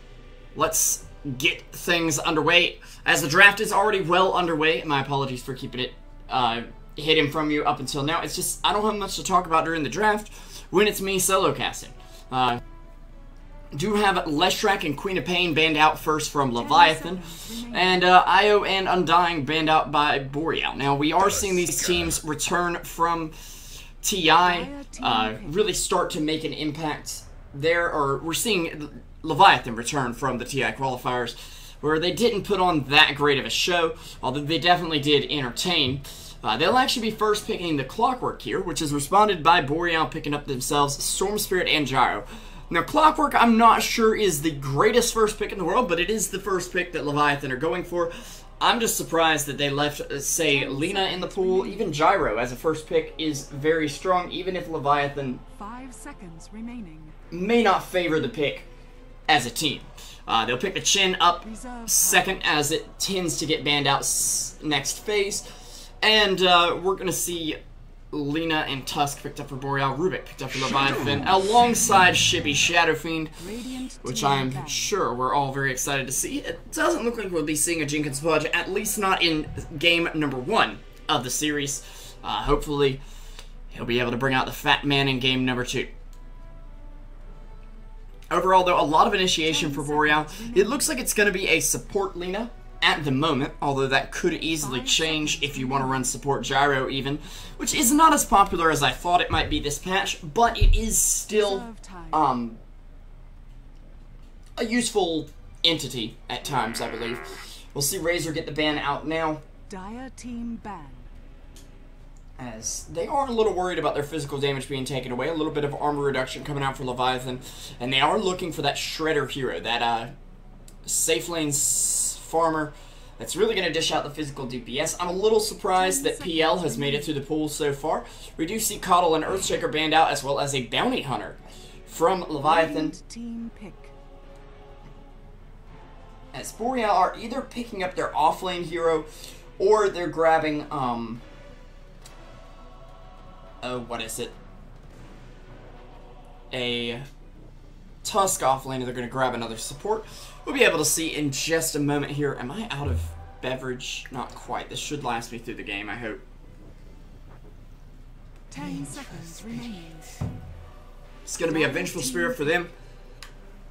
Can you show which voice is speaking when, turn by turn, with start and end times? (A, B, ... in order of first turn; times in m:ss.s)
0:00.5-0:12.6 A
0:13.7-0:55.4 A
0:16.5-0:18.1 B
0:24.4-0:25.7 B
0:50.4-0:52.0 B
0:55.5-0:57.2 B
0:57.3-0:58.7 A
0:59.3-1:07.6 A
1:01.4-1:02.6 B
1:08.1-1:13.4 A
1:13.4-1:14.9 B
1:14.0-1:23.0 A
1:23.7-1:25.9 A
1:28.3-1:42.6 A
1:29.4-1:31.0 B
1:34.6-1:36.2 B
1:41.3-1:42.3 B
1:44.6-1:49.4 A
1:49.7-1:51.1 B
1:52.4-2:00.1 A
2:00.8-2:13.0 A
2:05.7-2:07.2 B
2:12.4-2:13.9 B
2:16.3-2:21.2 A
2:23.6-2:24.4 A
2:26.5-2:27.1 A
2:28.0-2:36.2 A
2:38.5-2:40.2 B
2:41.2-2:42.7 A
2:41.4-2:42.6 B